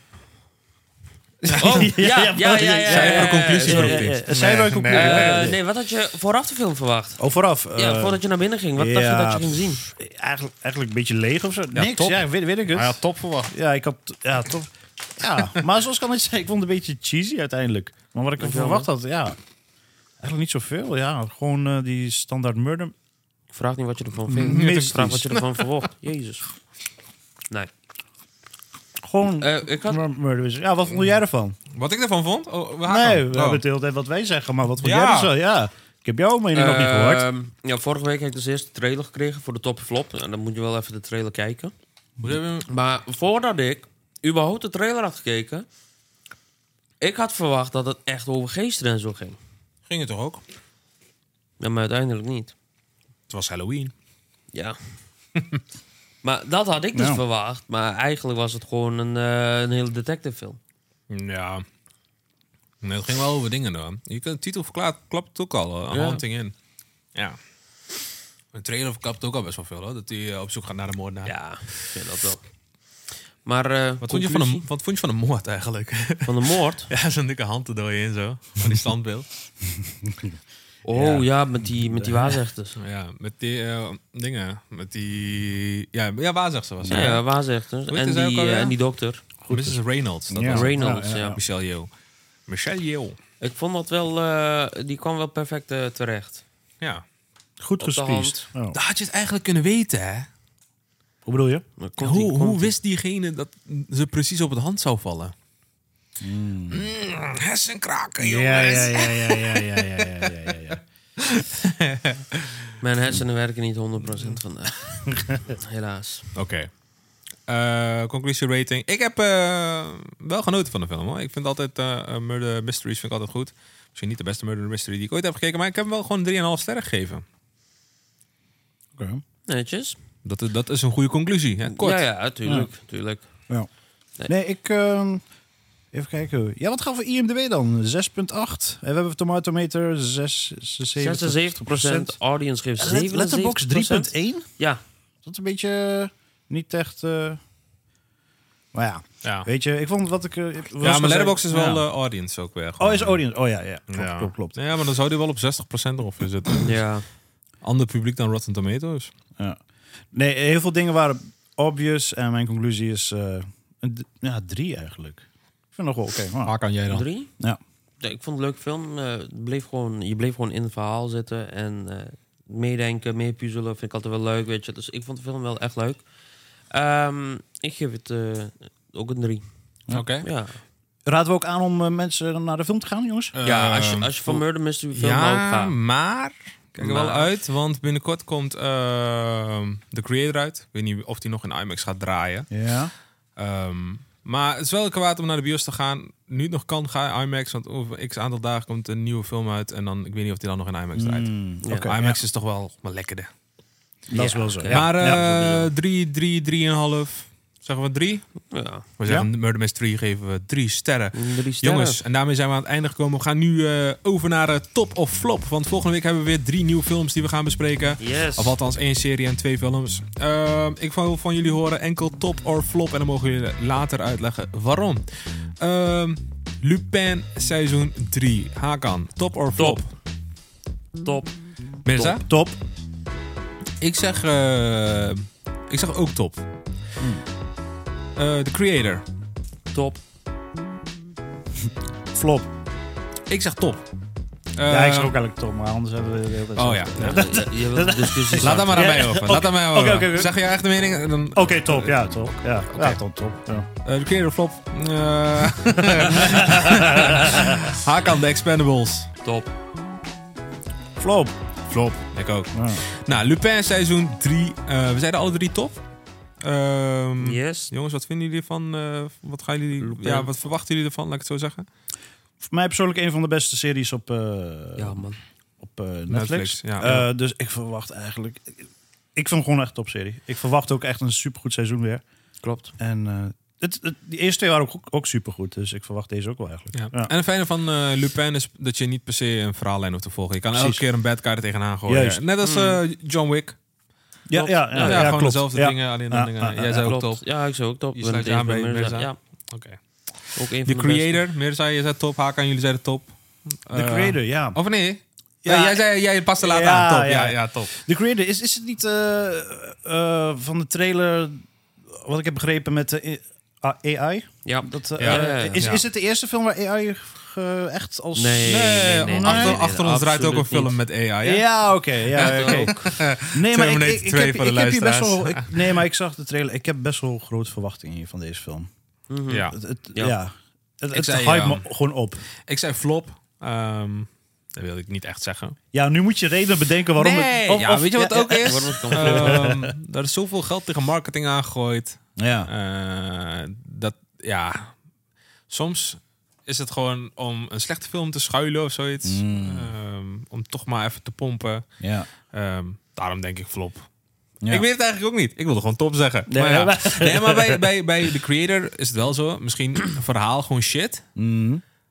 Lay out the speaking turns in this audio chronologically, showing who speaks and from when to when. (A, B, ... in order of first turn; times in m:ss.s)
0:01.4-0:05.6 A
0:01.5-0:01.9 B
0:01.6-0:04.2 C
0:02.9-0:05.4 B
0:04.9-0:07.2 C
0:07.2-0:08.2 A
0:07.7-0:09.9 C
0:08.8-0:13.0 A
0:11.7-0:13.5 B
0:13.5-0:19.4 A
0:18.4-0:18.9 C
0:20.2-0:22.9 A
0:23.5-0:26.4 C
0:24.3-0:25.3 A
0:24.5-0:25.6 B
0:29.0-0:31.6 A
0:29.4-0:30.0 C
0:31.7-0:33.6 B
0:32.8-0:37.2 A
0:34.8-0:35.3 B
0:36.5-0:41.7 C
0:42.2-0:42.7 B
0:42.7-0:45.7 C
0:47.0-0:49.4 C
0:49.9-0:50.4 B
0:51.6-0:52.5 C
0:53.3-0:53.9 B
0:54.5-0:54.8 C
0:56.2-1:00.6 C
0:56.9-0:57.2 A
1:01.1-1:01.6 B
1:02.8-1:06.5 B
1:05.9-1:06.2 C
1:08.5-1:11.3 B
1:11.2-1:12.4 C
1:13.4-1:14.6 C
1:14.0-1:19.3 B
1:16.2-1:16.9 C
1:20.8-1:22.8 C
1:20.9-1:22.4 A
1:22.8-1:27.2 B
1:26.8-1:27.2 A
1:26.9-1:29.2 C
1:27.9-1:28.7 B
1:29.4-1:31.4 A
1:29.5-1:31.9 B
1:30.5-1:31.4 C
1:32.5-1:33.2 B
1:33.4-1:36.4 C
1:37.6-1:38.8 A
1:37.8-1:38.4 C
1:38.7-1:40.3 B
1:41.2-1:41.6 A
1:41.8-1:42.7 C
1:42.0-1:45.3 B
1:46.2-1:46.8 A
1:46.7-1:52.6 B
1:48.2-1:50.8 A
1:52.8-1:56.3 C
1:56.3-1:56.7 B
1:57.5-2:07.2 B
2:09.0-2:09.2 A
2:09.5-2:10.0 C
2:10.2-2:12.0 B
2:11.7-2:13.2 C
2:12.4-2:12.7 A
2:14.2-2:15.2 A
2:15.9-2:22.2 A
2:21.0-2:24.8 C
2:22.8-2:24.5 A
2:25.2-2:27.4 A
2:28.7-2:31.8 A
2:30.8-2:33.2 B
2:32.8-2:34.6 A
2:33.9-2:36.8 B
2:36.6-2:37.0 C
2:37.6-2:39.1 B
2:40.1-2:46.6 A
2:46.4-2:47.0 B
2:46.9-2:47.3 C
2:48.0-2:56.0 C
2:56.7-2:59.4 C
2:59.9-3:00.3 B
3:00.2-3:00.6 C
3:01.0-3:03.3 A
3:03.3-3:12.5 B
3:03.4-3:05.8 C
3:06.8-3:07.3 C
3:12.5-3:12.9 A
3:13.4-3:23.3 B
3:20.9-3:22.2 A
3:21.6-3:21.9 C
3:24.1-3:25.2 A
3:24.1-3:25.7 C
3:24.7-3:28.3 B
3:28.5-3:28.8 C
3:29.0-3:45.0 B
3:31.1-3:32.0 C
3:38.0-3:38.5 C
3:45.6-3:49.9 B
3:51.0-3:51.3 C
3:51.8-3:52.2 B
3:52.1-3:52.6 A
3:53.8-3:56.4 B
3:57.0-3:57.2 A
3:58.2-3:59.0 B
3:59.7-4:00.0 C
4:02.1-4:02.5 A
4:03.3-4:03.8 B
4:04.6-4:05.2 B
4:04.7-4:10.3 A
4:06.6-4:07.2 B
4:07.0-4:09.0 C
4:08.4-4:11.9 B
4:11.3-4:13.7 A
4:12.7-4:13.0 B
4:13.8-4:19.1 B
4:19.2-4:19.5 C
4:21.0-4:21.3 A
4:21.7-4:25.8 B
4:22.5-4:22.8 A
4:26.4-4:31.7 B
4:27.2-4:27.7 C
4:29.8-4:30.3 C
4:32.4-4:35.0 A
4:34.8-4:35.2 C
4:35.6-4:42.0 A
4:36.1-4:37.0 B
4:42.4-4:42.7 C
4:42.8-4:47.1 A
4:46.7-4:53.6 B
4:50.5-4:50.8 A
4:51.9-4:52.2 A
4:52.4-4:52.8 C
4:54.3-4:56.9 A
4:54.3-4:57.2 B
4:54.7-4:55.2 C
4:56.8-4:59.2 C
4:57.9-5:07.7 B
5:00.4-5:01.2 C
5:03.7-5:04.6 A
5:05.4-5:05.8 A
5:06.4-5:19.6 A
5:14.4-5:15.6 C
5:15.0-5:15.8 B
5:18.2-5:20.8 C
5:18.4-5:21.4 B
5:21.2-5:28.7 A
5:22.1-5:22.9 C
5:22.1-5:25.8 B
5:29.1-5:30.2 C
5:29.3-5:29.6 B
5:29.5-5:32.2 A
5:30.9-5:31.7 B
5:32.5-5:35.6 B
5:35.7-5:39.7 A
5:37.0-5:44.7 B
5:38.4-5:39.5 C
5:42.2-5:42.5 A
5:45.5-5:51.7 B
5:49.0-5:49.7 A
5:51.8-5:52.1 A
5:52.3-5:53.9 B
5:54.5-6:01.0 B
5:56.3-5:57.6 A
6:01.2-6:01.6 A